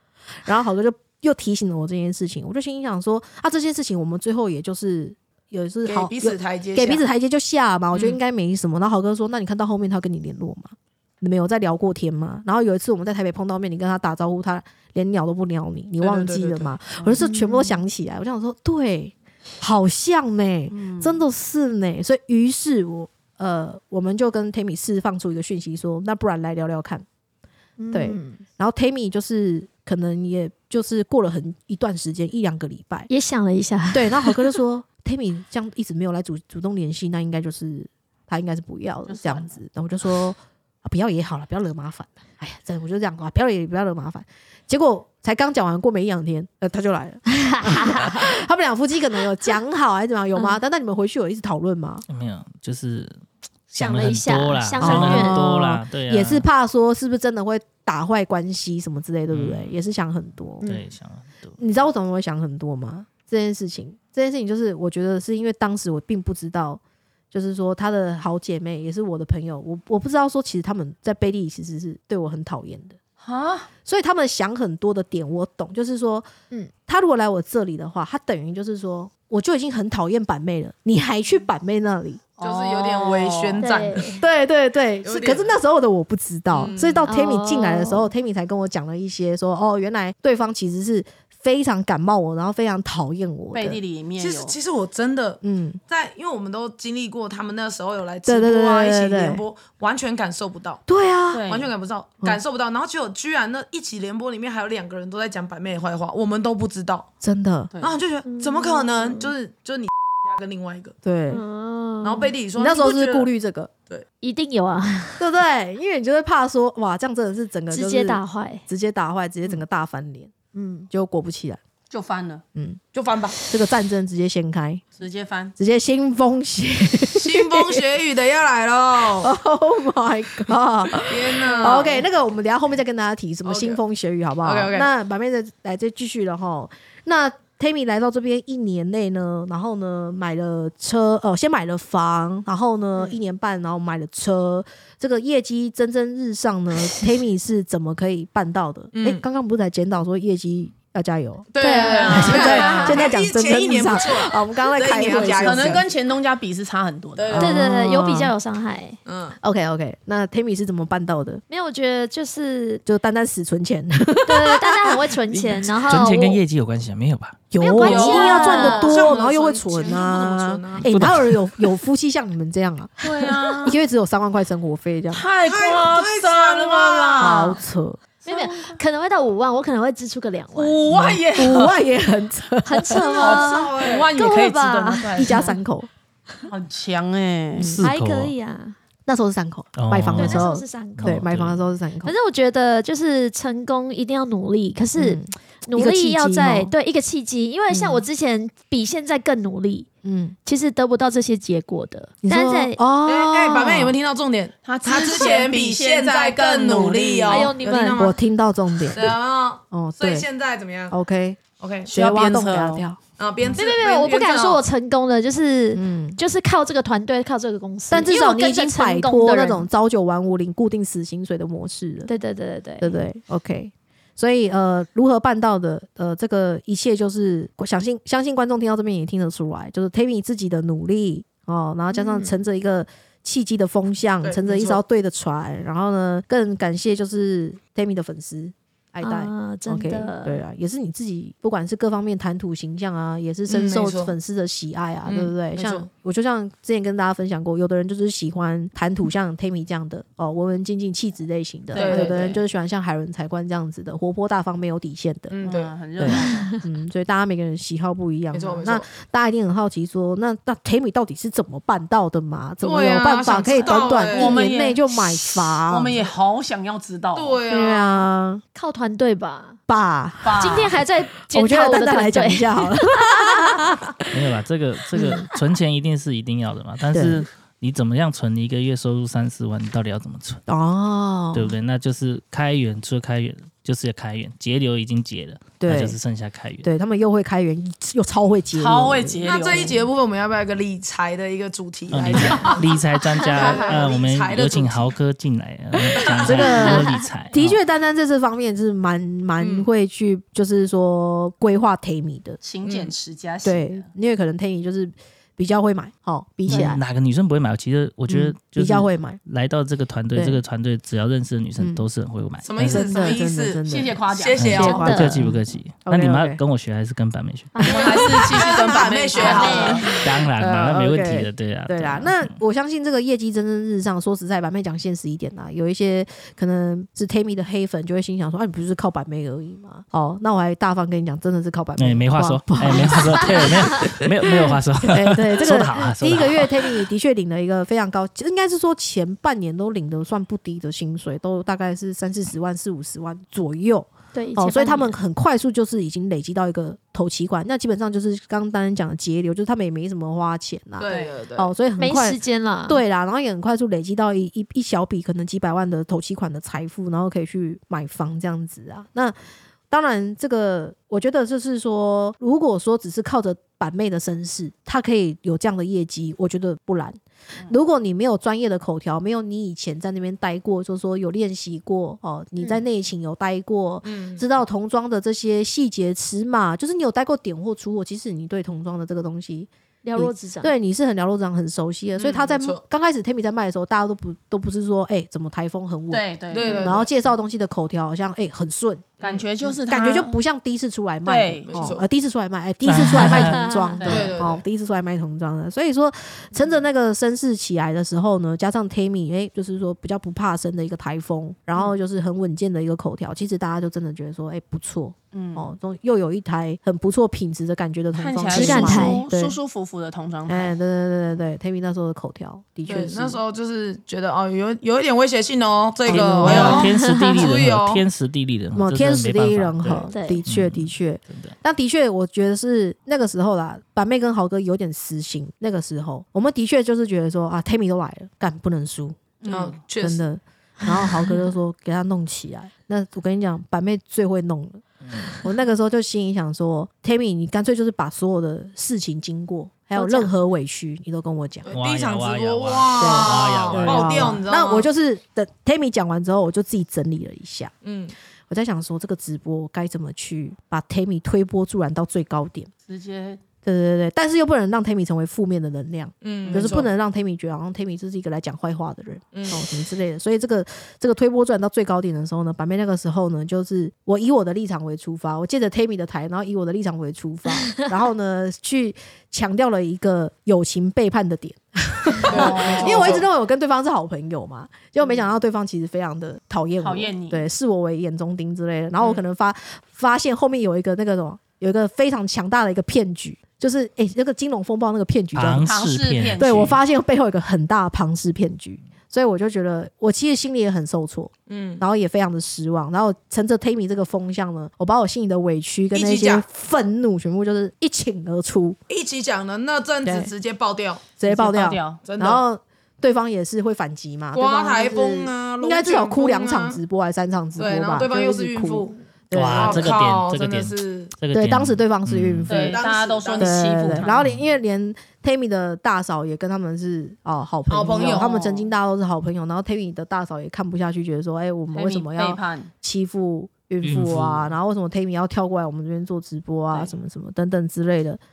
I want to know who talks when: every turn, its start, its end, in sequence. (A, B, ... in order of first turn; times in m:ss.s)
0:00.4-0:27.0 A
0:05.8-0:07.0 B
0:16.0-0:16.8 B
0:17.2-0:17.8 C
0:20.7-0:21.2 D
0:27.8-0:28.4 C
0:27.9-0:33.1 A
0:33.1-0:34.6 C
0:33.9-0:52.0 A
0:39.1-0:39.5 D
0:47.3-0:48.3 C
0:52.1-0:53.2 E
0:53.7-0:56.5 E
0:53.8-0:55.5 C
0:54.8-1:00.6 A
0:59.3-0:59.7 E
1:00.6-1:01.6 E
1:01.6-1:06.8 A
1:07.3-1:13.0 A
1:13.2-1:13.7 D
1:13.8-1:16.3 A
1:16.8-1:22.2 A
1:22.4-1:23.7 D
1:22.4-1:24.1 B
1:23.6-1:24.2 C
1:24.2-1:33.8 A
1:25.0-1:25.6 B
1:26.5-1:27.1 B
1:27.1-1:28.1 C
1:33.5-1:34.6 D
1:34.2-1:40.8 B
1:35.4-1:35.8 A
1:38.2-1:39.4 A
1:40.9-1:41.4 A
1:41.3-1:41.7 D
1:41.5-1:47.1 B
1:47.2-1:47.7 A
1:47.7-1:48.0 D
1:47.8-1:51.0 B
1:48.2-1:49.3 C
1:51.0-1:51.4 A
1:51.3-1:52.3 C
1:52.0-1:53.3 B
1:52.6-1:53.7 A
1:54.2-1:55.3 C
1:55.2-2:00.3 A
1:57.7-1:58.6 C
2:00.5-2:00.9 C
2:00.9-2:01.6 A
2:01.9-2:02.4 D
2:02.5-2:02.8 A
2:02.9-2:03.4 B
2:03.4-2:04.8 A
2:05.0-2:05.5 D
2:05.6-2:07.8 A
2:07.1-2:09.3 B
2:09.2-2:31.5 A
2:11.0-2:12.0 B
2:11.5-2:11.9 D
2:13.4-2:13.8 B
2:14.4-2:14.9 B
2:28.9-2:29.2 B
2:31.5-2:35.9 B
2:31.6-2:33.0 C
2:31.8-2:33.1 D
2:32.1-2:35.8 A
2:35.0-2:37.5 D
2:37.2-2:37.7 B
2:37.3-2:38.3 A
2:37.4-2:39.0 C
2:39.0-2:39.4 B
2:39.4-2:41.4 A
2:41.5-2:42.8 C
2:42.8-2:45.0 A
2:44.2-2:46.4 C
2:45.8-2:47.4 E
2:47.5-2:53.1 A
2:47.6-2:49.0 C
2:47.8-2:50.9 B
2:47.9-2:49.0 D
2:50.9-2:51.7 E
2:53.0-2:53.8 D
2:53.6-2:55.2 A
2:55.1-2:57.6 D
2:55.4-2:57.4 B
2:57.2-2:58.0 A
2:58.2-2:58.8 D
2:58.2-3:00.8 C
3:00.5-3:01.8 D
3:00.9-3:03.3 A
3:02.6-3:05.5 C
3:03.1-3:04.1 B
3:03.2-3:05.6 D
3:05.2-3:05.9 A
3:06.5-3:07.8 D
3:07.6-3:07.8 A
3:07.6-3:08.3 E
3:07.8-3:08.8 C
3:09.0-3:12.1 A
3:09.8-3:11.6 E
3:10.1-3:11.2 C
3:12.0-3:19.9 C
3:15.0-3:16.7 A
3:17.7-3:18.0 A
3:20.0-3:20.4 A
3:20.4-3:22.8 C
3:22.2-3:24.0 A
3:23.0-3:28.2 B
3:24.6-3:27.6 D
3:27.3-3:28.1 C
3:27.9-3:29.2 A
3:28.9-3:31.0 B
3:29.7-3:30.3 A
3:30.9-3:33.0 A
3:31.6-3:31.9 B
3:31.9-3:32.8 D
3:33.2-3:34.6 B
3:33.5-3:39.7 C
3:35.7-3:36.2 A
3:37.9-3:42.1 A
3:42.0-3:43.0 C
3:42.8-4:15.4 A
3:51.9-3:52.4 C
3:54.2-3:54.8 B
3:59.0-4:00.4 C
4:03.5-4:04.1 B
4:05.0-4:05.9 B
4:11.7-4:12.4 D
4:11.7-4:12.3 B
4:15.3-4:16.2 B
4:15.4-4:16.5 D
4:16.0-4:26.0 A
4:16.3-4:16.6 C
4:18.3-4:18.9 B
4:22.6-4:24.4 B
4:23.5-4:24.8 D
4:25.7-4:27.4 D
4:27.1-4:28.1 B
4:27.5-4:28.4 A
4:28.5-4:29.6 C
4:29.7-4:30.7 A
4:30.2-4:30.7 D
4:30.4-4:33.5 C
4:31.3-4:34.1 A
4:34.1-4:40.4 E
4:34.9-4:35.3 A
4:36.9-4:37.2 A
4:40.5-4:41.5 A
4:41.3-4:46.7 E
4:45.6-4:46.0 A
4:46.6-4:49.7 A
4:48.6-4:49.9 D
4:49.2-4:54.9 B
4:51.9-4:57.6 E
4:55.9-4:56.5 B
4:56.2-5:02.4 A
4:56.6-4:57.0 C
4:59.4-4:59.7 B
5:02.4-5:03.9 D
5:02.6-5:02.9 B
5:03.4-5:06.8 A
5:06.5-5:12.9 E
5:08.1-5:09.2 A
5:10.1-5:10.4 A
5:11.6-5:11.8 A
5:12.4-5:14.8 B
5:12.6-5:16.4 A
5:13.6-5:14.7 D
5:14.3-5:17.6 E
5:14.6-5:15.2 C
5:17.5-5:18.5 C
5:17.6-5:19.9 D
5:17.6-5:20.0 B
5:19.1-5:20.0 C
5:19.2-5:59.2 A
5:20.0-5:22.3 E
5:31.8-5:36.8 E
5:44.1-5:45.0 C
5:50.8-5:51.5 B
5:51.8-5:52.8 C
5:59.7-6:29.0 A
6:13.8-6:14.3 B
6:19.8-6:20.5 C
6:22.0-6:22.6 B
6:25.9-6:26.8 D
6:26.3-6:26.9 B
6:29.0-6:30.2 D
6:29.7-6:49.4 A
6:31.0-6:31.7 D
6:31.4-6:31.9 B
6:32.6-6:33.5 E
6:32.9-6:34.1 C
6:33.8-6:34.2 D
6:33.8-6:34.4 B
6:45.1-6:45.5 D
6:47.9-6:50.5 D
6:48.3-6:49.0 C
6:50.3-6:53.2 A
6:52.6-6:57.8 B
6:55.9-6:56.6 A
6:55.9-7:01.3 E
6:56.5-6:57.1 C
6:58.5-7:09.0 A
6:59.9-7:00.2 C
7:09.2-7:09.6 D
7:09.3-7:10.0 B
7:09.8-7:14.6 A
7:10.6-7:11.2 C
7:14.8-7:15.1 E
7:15.2-7:21.5 A
7:19.7-7:20.1 C
7:21.4-7:24.7 B
7:21.5-7:24.2 E
7:22.8-7:27.5 A
7:27.6-7:27.9 B
7:28.3-7:32.5 A
7:32.6-7:33.2 D
7:33.4-8:05.5 A
7:36.0-7:36.7 B
7:36.2-7:36.6 D
7:39.1-7:39.5 B
7:52.0-7:53.1 B
7:52.1-7:53.0 D
7:56.6-7:57.2 D
8:05.1-8:06.6 E
8:05.4-8:06.6 D
8:06.2-8:18.6 A
8:11.3-8:11.6 B
8:15.7-8:16.3 B
8:18.7-8:21.0 B
8:19.8-8:20.1 A
8:21.0-8:29.7 A
8:21.0-8:21.8 D
8:21.8-8:22.2 B
8:24.1-8:26.6 B
8:27.4-8:30.9 B
8:29.1-8:32.5 E
8:31.1-8:32.6 A
8:32.3-8:34.0 D
8:32.3-8:33.5 B
8:33.2-8:48.0 A
8:37.5-8:38.4 B
8:37.7-8:38.1 D
8:41.5-8:42.5 D
8:43.6-8:44.3 E